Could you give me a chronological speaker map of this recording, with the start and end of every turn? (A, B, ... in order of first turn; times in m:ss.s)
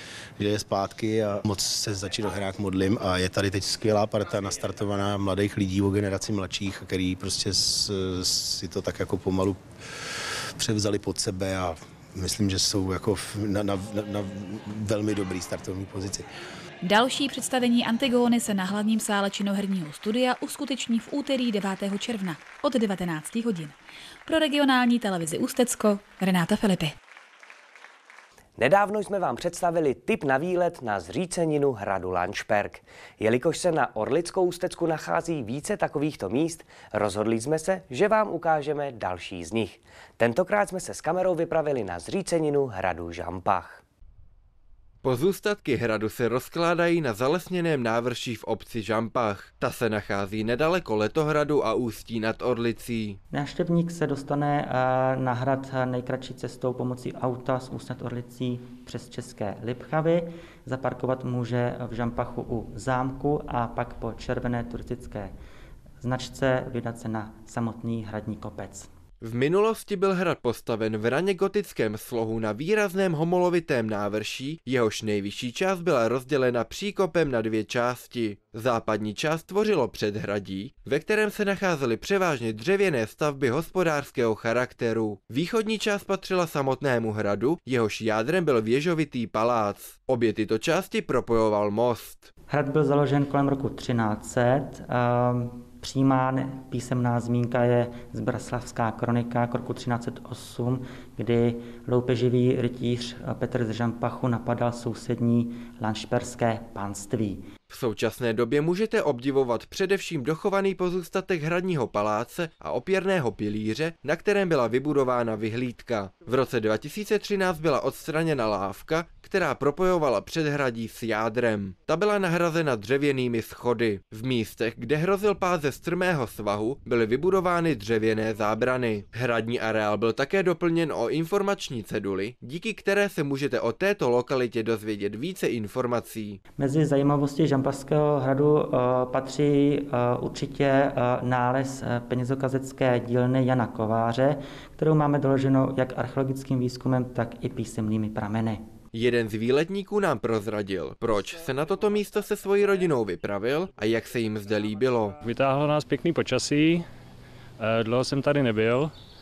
0:00.4-0:09.6 A
0:10.6-0:16.2 A
0:16.8-0:23.8 B
0:24.3-0:26.9 B
0:28.6-0:43.8 C
0:45.0-0:53.2 D
0:53.3-1:05.3 E
1:06.0-1:08.9 E
1:09.2-1:32.3 D
1:32.5-1:47.4 E
1:47.7-2:16.4 D
2:16.6-2:28.6 E
2:28.9-2:35.2 D
2:35.2-2:36.9 F
2:37.6-2:38.9 F